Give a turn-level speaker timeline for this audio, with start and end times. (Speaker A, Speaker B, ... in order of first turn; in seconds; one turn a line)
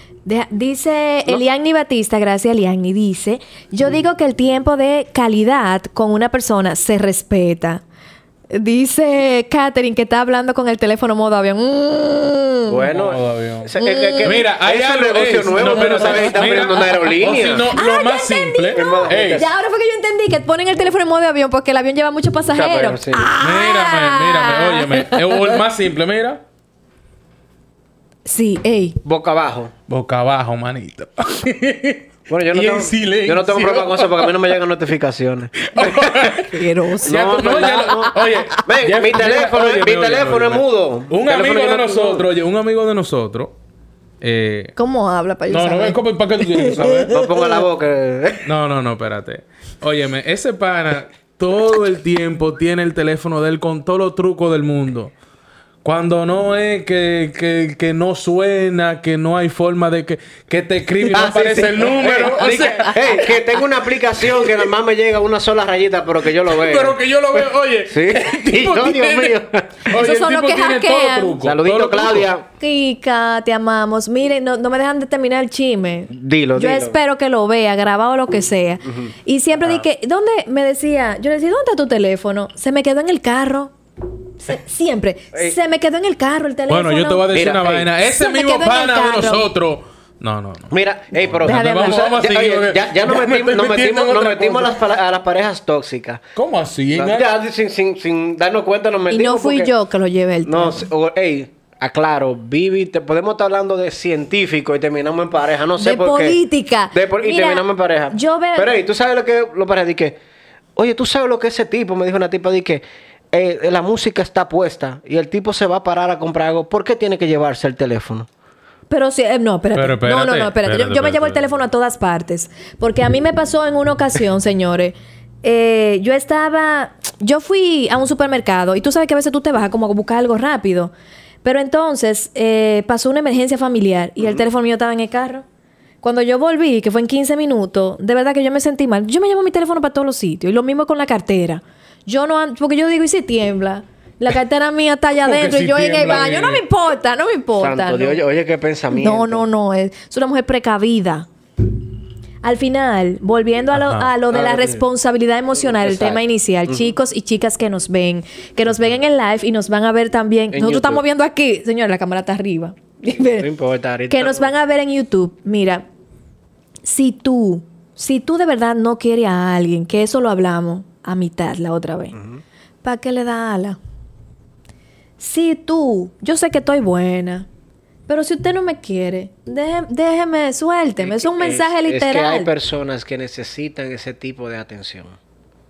Speaker A: 0.2-7.8
Speaker A: 8.5-12.8
Speaker B: 12.7-17.7
Speaker C: 12.9-13.7
Speaker A: 13.8-14.4
Speaker C: 14.2-19.4
Speaker A: 15.7-16.4
Speaker A: 17.7-25.6
Speaker B: 18.7-19.5
Speaker B: 22.5-23.2
Speaker C: 23.4-26.4
Speaker A: 28.2-29.0
Speaker B: 29.0-29.7
Speaker C: 29.9-34.5
Speaker B: 32.3-36.5
Speaker C: 35.7-43.5
Speaker A: 36.4-38.6
Speaker B: 37.0-42.3
Speaker C: 44.2-44.7
Speaker A: 44.8-47.6
Speaker C: 45.5-47.1
Speaker B: 47.1-48.4
Speaker C: 48.4-55.1
Speaker C: 55.8-63.0
Speaker B: 61.1-69.9
Speaker A: 62.4-63.6
Speaker C: 66.5-72.3
Speaker A: 69.9-71.3
Speaker B: 71.4-72.5
Speaker A: 72.6-83.7
Speaker B: 76.1-77.0
Speaker B: 78.8-79.1
Speaker A: 84.4-87.3
Speaker C: 86.7-94.7
Speaker B: 87.3-87.9
Speaker A: 88.0-89.5
Speaker B: 90.7-96.2
Speaker A: 91.4-92.1
Speaker C: 96.3-97.3
Speaker B: 96.9-99.7
Speaker A: 99.1-100.8
Speaker B: 100.4-106.4
Speaker A: 105.8-108.7
Speaker B: 106.9-110.2
Speaker B: 110.8-118.3
Speaker A: 118.9-130.9
Speaker C: 119.7-121.6
Speaker A: 131.4-135.4
Speaker A: 136.0-148.2
Speaker C: 145.2-146.6
Speaker B: 147.6-149.4
Speaker A: 148.9-151.3
Speaker A: 152.4-163.5
Speaker C: 153.7-154.1
Speaker B: 154.3-154.8
Speaker B: 155.6-156.9
Speaker B: 160.5-161.0
Speaker B: 163.4-164.5
Speaker A: 164.1-165.8
Speaker A: 166.8-172.2
Speaker B: 172.1-172.4
Speaker A: 172.8-173.8
Speaker A: 175.2-177.5
Speaker A: 178.1-182.5
Speaker B: 181.0-185.2